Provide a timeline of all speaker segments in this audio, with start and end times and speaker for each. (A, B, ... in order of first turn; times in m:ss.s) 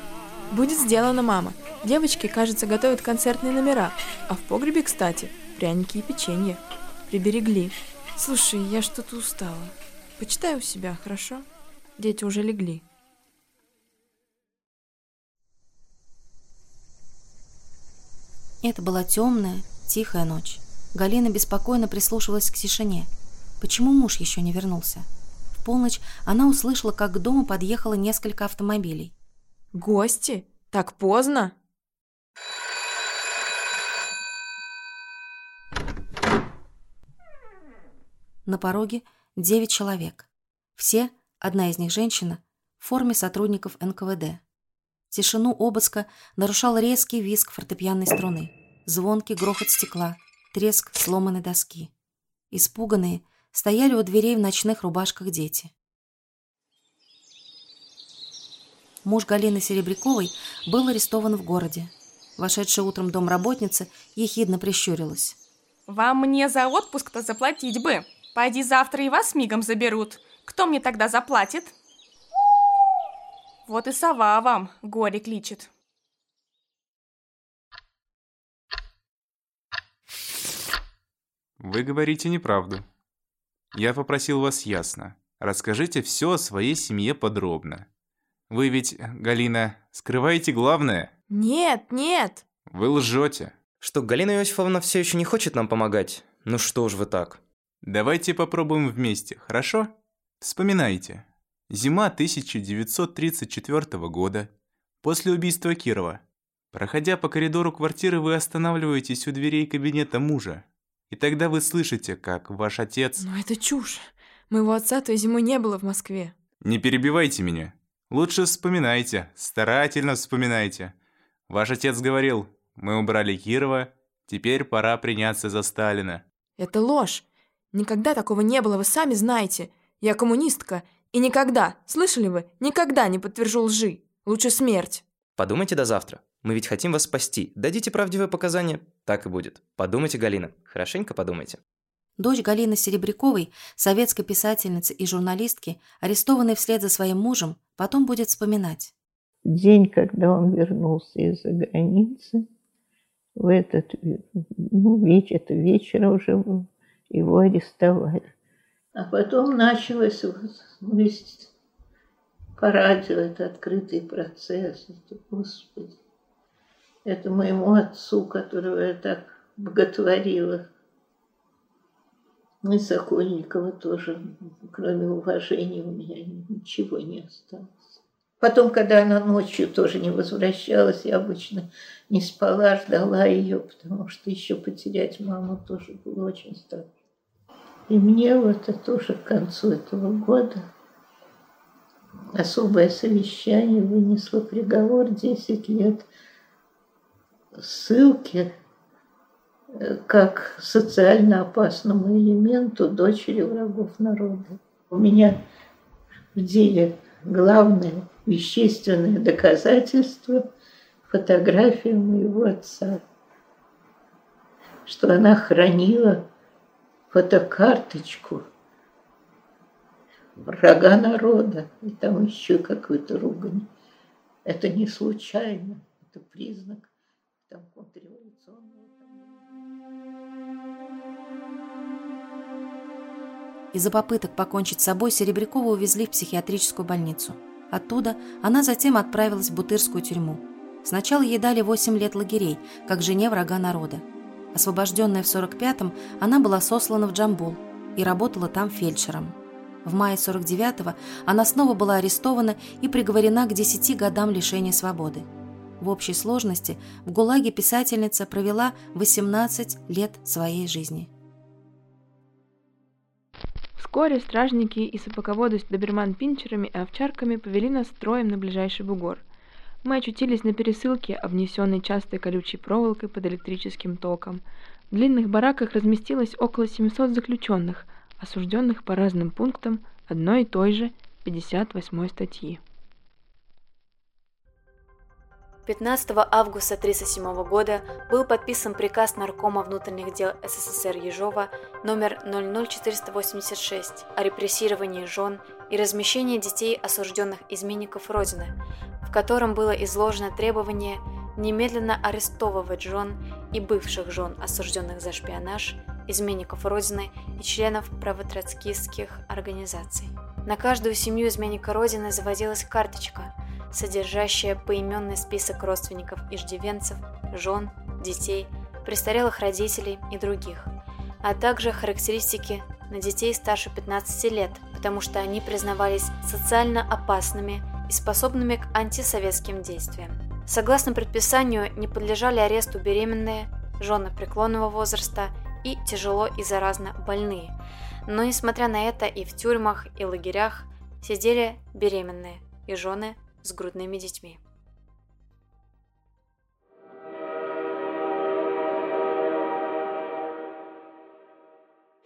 0:00.5-0:11.4 A
0:12.0-0:12.8 A
0:18.6-0:23.1 B
0:23.6-0:29.1 B
0:29.7-0:31.5 A
0:38.4-0:44.4 B
0:45.1-0:51.9 B
0:52.5-0:55.7 B
0:59.0-1:05.4 B
1:05.9-1:11.7 C
1:13.7-1:15.7 C
1:21.6-1:22.8 D
1:23.7-1:27.8 D
1:28.5-1:31.1 D
1:31.3-1:32.4 A
1:32.7-1:33.6 D
1:33.8-1:37.4 E
1:37.8-1:44.5 D
1:45.0-1:53.2 D
1:53.2-1:56.4 A
1:56.6-2:00.9 D
2:01.5-2:06.2 D
2:06.6-2:15.0 A
2:15.4-2:21.6 E
2:22.2-2:28.9 B
2:29.5-2:32.4 F
2:33.4-2:38.3 F
2:39.0-2:41.5 F
2:42.6-2:46.0 F
2:47.1-2:50.6 F
2:52.6-3:06.9 F
3:07.9-3:10.6 F
3:12.4-3:16.1 F
3:17.5-3:18.5 F
3:19.8-3:25.4 F
3:26.3-3:30.4 F
3:31.1-3:33.0 F
3:34.8-3:36.2 F
3:37.1-3:38.4 F
3:40.4-3:43.7 F
3:44.4-3:46.9 F
3:47.5-3:49.4 F
3:53.7-4:15.3 B
4:15.8-4:21.1 B
4:23.8-4:29.2 A
4:30.4-4:30.9 A
4:34.9-4:37.9 A
4:39.8-4:40.8 A
4:41.5-4:42.6 A
4:45.6-5:20.7 G
5:21.2-5:37.5 G
5:38.1-5:44.4 G